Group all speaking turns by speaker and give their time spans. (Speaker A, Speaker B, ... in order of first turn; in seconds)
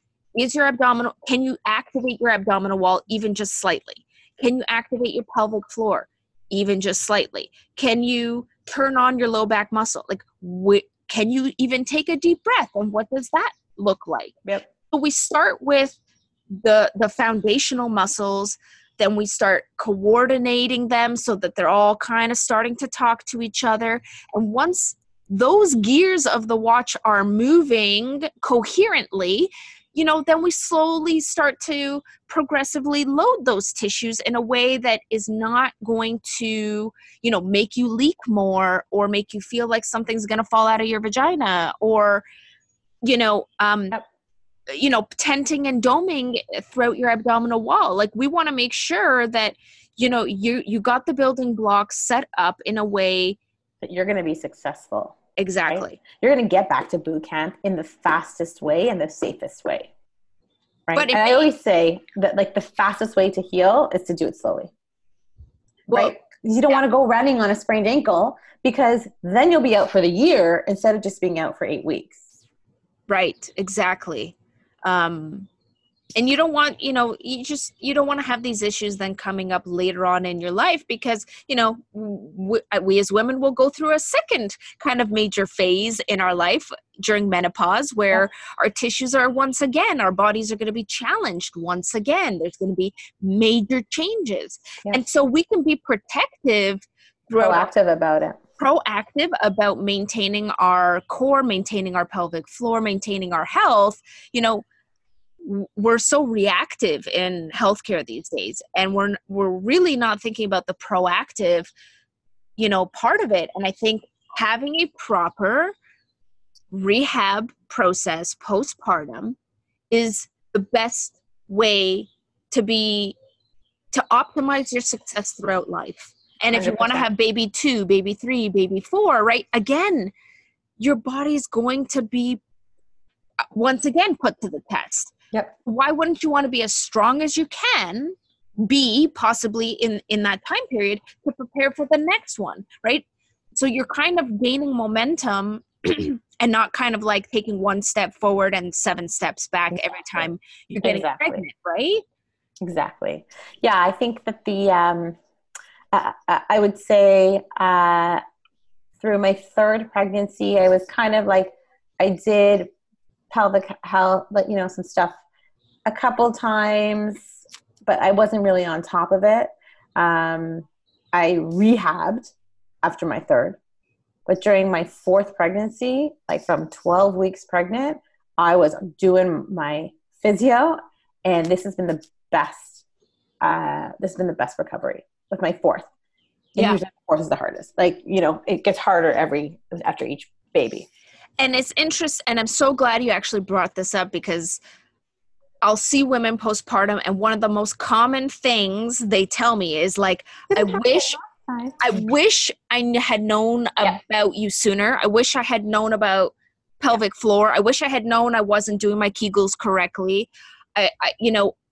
Speaker A: 0.3-14.3, 14.9-16.0, 16.5-42.2, 43.0-44.0, 44.7-53.4, 55.4-56.0, 60.9-61.5, 65.9-66.2, 73.1-75.5, 76.1-97.7, 98.6-104.6, 105.4-111.7, 112.6-115.7, 116.7-119.4, 119.9-123.2, 123.9-130.1, 130.8-132.4, 133.5-135.1, 135.6-152.0, 191.4-194.6, 195.6-201.2, 201.8-211.5
Speaker B: 53.8-59.9, 60.9-64.7, 65.9-72.2, 97.4-98.4, 126.5-127.0, 150.8-151.4, 152.6-155.2, 155.9-158.2, 159.0-162.7, 163.3-165.2, 165.8-167.3, 167.8-173.6, 174.2-182.8, 183.4-185.9, 186.5-190.9, 200.5-202.0